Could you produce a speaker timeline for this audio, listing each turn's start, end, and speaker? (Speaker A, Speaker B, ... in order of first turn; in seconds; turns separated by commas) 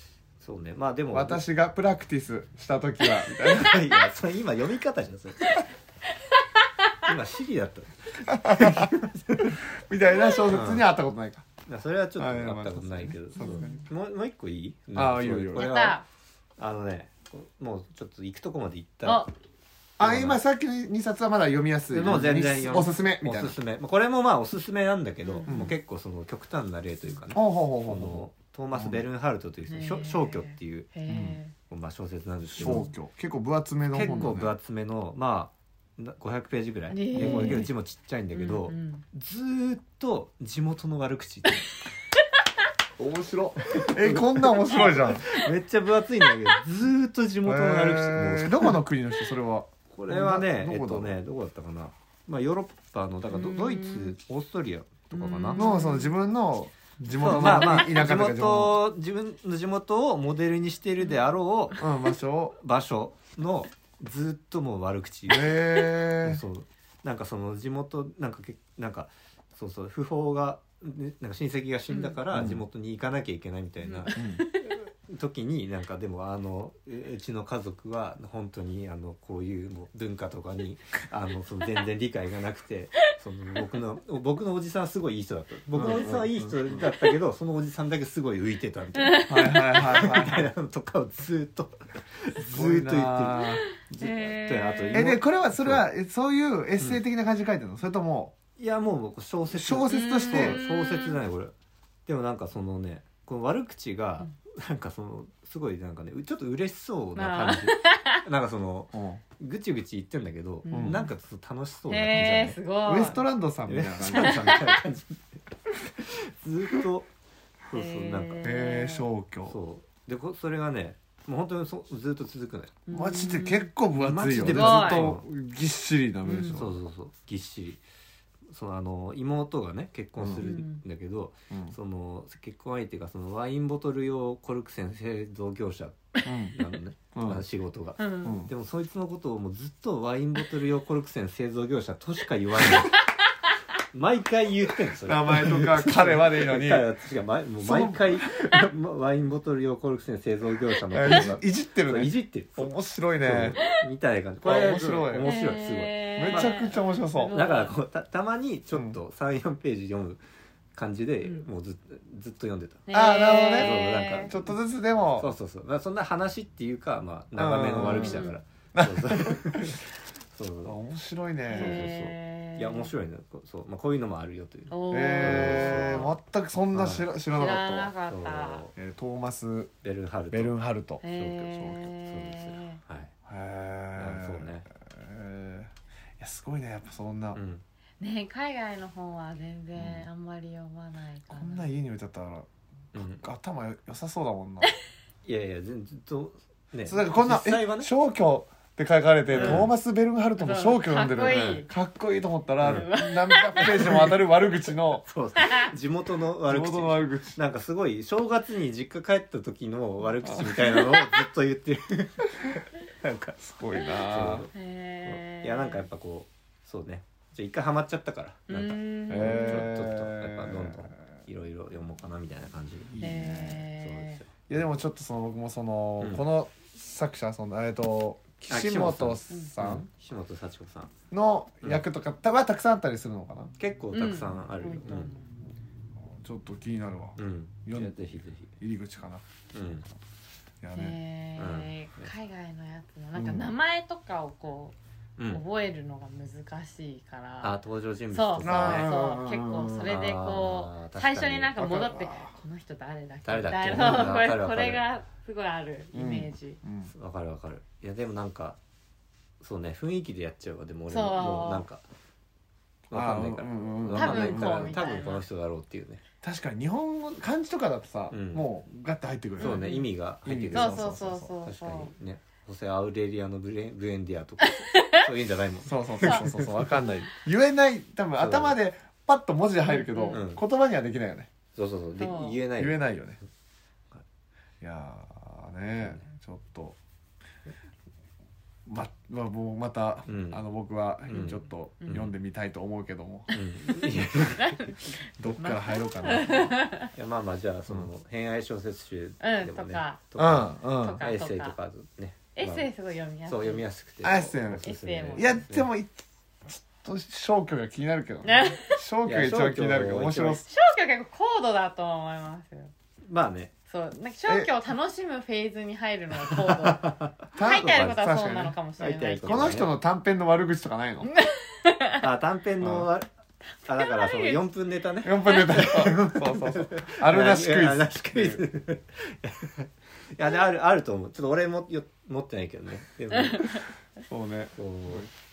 Speaker A: 0.4-1.4, Speaker B: 1.1-3.9, Speaker A: 3.3-5.6, Speaker A: 7.0-9.6, Speaker B: 8.3-9.0, Speaker B: 9.7-11.5, Speaker A: 10.5-10.8, Speaker A: 11.7-16.0, Speaker B: 12.2-13.8, Speaker C: 13.4-13.9, Speaker B: 14.9-15.7, Speaker C: 15.6-16.0, Speaker A: 16.6-19.3, Speaker C: 19.0-19.3, Speaker B: 20.0-23.6, Speaker A: 20.0-20.4, Speaker A: 21.9-30.9, Speaker C: 25.2-25.7, Speaker B: 25.5-25.8, Speaker B: 27.3-29.0, Speaker C: 29.7-31.5, Speaker B: 31.1-31.4, Speaker A: 31.7-32.9, Speaker B: 32.5-34.5, Speaker C: 32.6-32.9, Speaker A: 33.9-41.6, Speaker C: 34.0-34.3, Speaker C: 36.9-37.7, Speaker B: 37.1-37.6, Speaker C: 38.3-39.0, Speaker B: 43.0-45.2, Speaker A: 43.7-48.8, Speaker B: 47.5-51.2, Speaker A: 49.9-55.6, Speaker C: 53.3-54.1, Speaker C: 55.1-56.1, Speaker B: 55.5-58.8, Speaker A: 57.1-61.8, Speaker C: 57.4-57.7, Speaker B: 61.8-62.6, Speaker A: 62.6-95.8, Speaker B: 65.3-66.4, Speaker C: 71.9-72.2, Speaker B: 72.3-72.6, Speaker C: 73.8-74.7, Speaker B: 74.2-74.4, Speaker B: 85.7-86.8, Speaker C: 89.0-90.1, Speaker B: 89.3-90.5, Speaker B: 92.5-93.7, Speaker C: 94.0-95.0, Speaker B: 94.9-98.3, Speaker A: 98.6-101.5, Speaker B: 99.5-100.6, Speaker C: 99.9-101.2, Speaker A: 102.1-112.6, Speaker C: 107.2-108.2, Speaker B: 108.9-109.2, Speaker C: 110.7-111.1, Speaker B: 110.7-111.0, Speaker C: 111.9-113.2, Speaker B: 112.8-114.7, Speaker A: 113.7-115.4, Speaker C: 114.2-114.7, Speaker A: 116.0-117.1, Speaker A: 117.7-118.6, Speaker C: 117.7-119.1, Speaker B: 118.4-119.6, Speaker A: 119.5-122.8, Speaker C: 122.9-123.7, Speaker B: 122.9-126.7, Speaker A: 124.0-125.3, Speaker C: 124.3-125.2, Speaker C: 126.2-126.6, Speaker A: 126.5-127.8, Speaker A: 128.5-143.0, Speaker B: 130.2-130.5, Speaker C: 130.4-130.8, Speaker B: 131.5-131.8, Speaker C: 136.2-136.6, Speaker B: 136.2-136.5, Speaker B: 137.1-137.4, Speaker C: 138.0-138.4, Speaker B: 138.2-138.5, Speaker A: 143.9-156.7, Speaker B: 145.0-146.9, Speaker B: 147.6-148.3, Speaker B: 150.9-153.6, Speaker B: 154.4-155.3, Speaker C: 155.2-157.8, Speaker B: 156.2-157.4, Speaker A: 157.3-160.2, Speaker B: 158.7-159.0, Speaker A: 160.8-164.6, Speaker C: 162.9-164.3, Speaker B: 162.9-165.3, Speaker A: 165.2-170.8, Speaker B: 167.4-169.8, Speaker C: 168.0-168.4, Speaker B: 170.7-171.9, Speaker C: 171.5-172.9, Speaker A: 171.5-176.1, Speaker C: 174.7-176.1, Speaker B: 174.9-177.9, Speaker A: 176.7-177.1, Speaker C: 177.3-178.7, Speaker A: 178.1-178.7, Speaker B: 178.8-179.7, Speaker A: 179.8-180.5, Speaker B: 180.3-181.0, Speaker C: 181.0-182.8, Speaker A: 181.1-183.1, Speaker B: 183.3-187.4, Speaker A: 183.9-184.7, Speaker A: 187.3-187.6, Speaker C: 188.0-191.7, Speaker B: 191.3-192.5, Speaker A: 192.9-193.2, Speaker B: 193.0-194.7, Speaker A: 195.2-197.9, Speaker B: 196.9-205.0, Speaker A: 199.3-199.7, Speaker C: 199.3-199.7, Speaker C: 200.4-201.7, Speaker A: 201.3-201.6, Speaker A: 202.6-202.9, Speaker C: 202.6-204.2, Speaker A: 203.6-213.4, Speaker C: 205.4-205.7, Speaker B: 206.5-207.4, Speaker B: 210.2-210.7, Speaker B: 213.4-214.5, Speaker A: 214.0-214.5, Speaker C: 214.5-215.9, Speaker A: 215.1-224.3, Speaker C: 218.5-219.7, Speaker B: 219.1-221.0, Speaker B: 222.9-223.7, Speaker C: 223.0-224.2, Speaker B: 224.5-229.9, Speaker A: 228.5-230.9, Speaker B: 231.1-233.5, Speaker A: 233.6-235.2, Speaker C: 233.9-235.3, Speaker B: 236.1-239.2, Speaker A: 237.2-238.5, Speaker A: 239.5-239.8, Speaker B: 240.6-241.0, Speaker C: 240.7-244.8, Speaker A: 241.4-242.1, Speaker B: 243.2-243.5, Speaker A: 245.2-245.4, Speaker C: 245.3-247.6, Speaker A: 247.4-248.9, Speaker C: 248.1-256.6, Speaker B: 248.4-249.9, Speaker A: 249.8-251.5, Speaker B: 251.6-252.3, Speaker A: 253.2-254.8, Speaker B: 255.9-256.9, Speaker A: 256.9-258.6, Speaker A: 259.4-261.8, Speaker C: 260.9-261.7, Speaker A: 262.9-266.0, Speaker B: 262.9-264.8, Speaker C: 263.9-265.2, Speaker B: 266.2-271.3, Speaker A: 268.1-268.4, Speaker A: 269.4-276.8, Speaker C: 269.4-269.9, Speaker C: 270.5-271.9, Speaker C: 274.6-275.0, Speaker B: 275.6-281.3, Speaker A: 278.2-278.6, Speaker C: 279.7-280.2, Speaker A: 280.1-280.4, Speaker A: 281.6-282.8, Speaker C: 282.0-282.4, Speaker B: 282.6-283.2, Speaker B: 284.6-286.8, Speaker B: 288.7-293.3, Speaker A: 290.1-290.4, Speaker A: 291.1-292.1, Speaker C: 293.3-296.9, Speaker A: 293.3-294.6, Speaker B: 295.2-296.5, Speaker A: 296.9-302.7, Speaker C: 299.2-300.0, Speaker B: 300.2-301.0, Speaker C: 300.6-301.6, Speaker C: 302.4-303.6, Speaker A: 303.3-305.7, Speaker B: 304.0-310.4, Speaker C: 304.6-305.4, Speaker C: 308.2-308.8, Speaker A: 309.0-310.5, Speaker C: 310.5-312.7, Speaker A: 313.1-313.5, Speaker C: 313.7-319.5, Speaker A: 316.3-318.0, Speaker B: 317.4-318.6, Speaker A: 318.8-319.7, Speaker B: 319.2-321.1, Speaker C: 321.1-322.0, Speaker A: 322.0-323.1, Speaker B: 322.6-322.9, Speaker A: 323.6-333.5, Speaker C: 323.8-324.4, Speaker B: 325.0-328.4, Speaker C: 333.2-333.6, Speaker B: 334.1-335.1, Speaker A: 334.6-335.1